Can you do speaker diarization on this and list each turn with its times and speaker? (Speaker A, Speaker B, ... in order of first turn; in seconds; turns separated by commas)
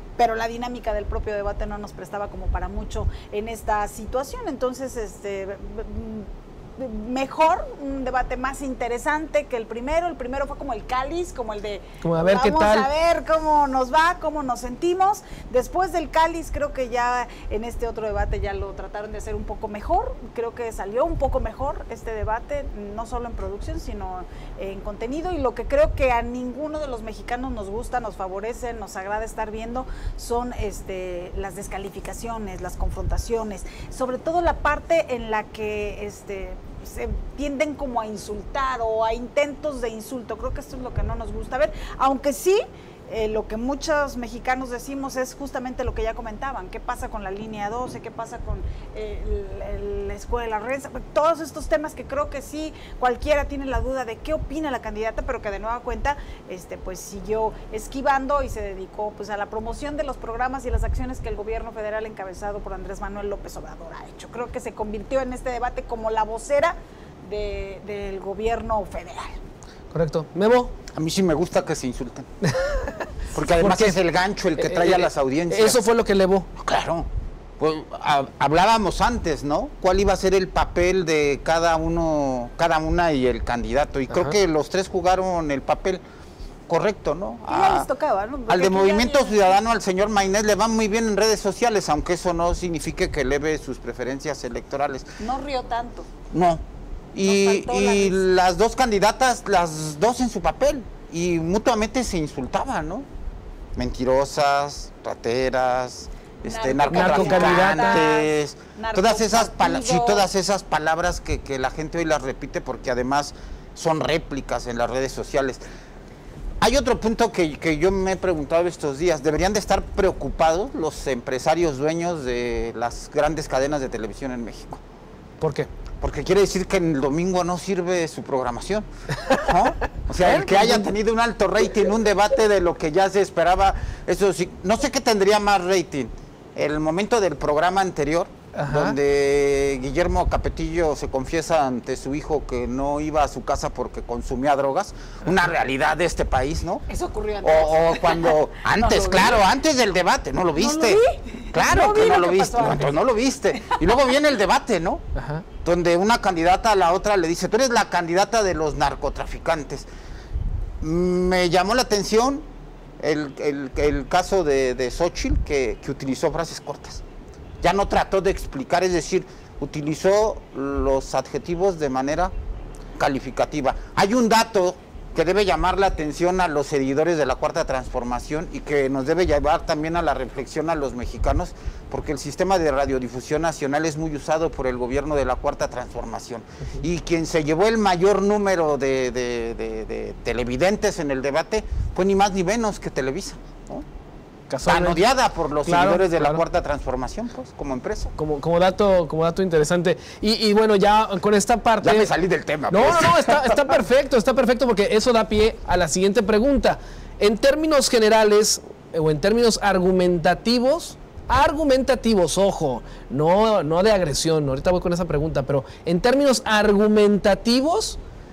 Speaker A: 0.2-69.4, Speaker B: 12.0-12.9, Speaker B: 69.9-70.7, Speaker C: 70.9-72.3, Speaker B: 72.4-72.8, Speaker C: 73.3-75.8, Speaker B: 73.6-74.0, Speaker B: 74.5-76.5, Speaker C: 76.5-77.1, Speaker C: 77.6-86.0, Speaker C: 86.7-87.9, Speaker A: 87.5-89.6, Speaker C: 88.5-95.1, Speaker A: 95.2-96.1, Speaker C: 96.3-103.1, Speaker A: 97.2-98.2, Speaker C: 103.8-115.6, Speaker A: 106.4-110.2, Speaker B: 106.9-108.0, Speaker C: 116.6-124.8, Speaker B: 125.4-125.7, Speaker C: 126.0-146.9, Speaker B: 130.2-130.9, Speaker B: 138.5-139.0, Speaker A: 146.9-149.4, Speaker C: 147.4-151.0, Speaker A: 150.6-153.0, Speaker C: 151.5-155.0, Speaker B: 155.2-155.4, Speaker C: 155.6-159.9, Speaker C: 160.8-162.4, Speaker C: 163.0-167.0, Speaker C: 167.6-172.3, Speaker C: 172.9-193.8, Speaker B: 194.5-195.0, Speaker C: 194.7-198.1, Speaker B: 195.6-196.4, Speaker B: 198.2-202.1, Speaker C: 201.8-203.8, Speaker B: 202.7-218.0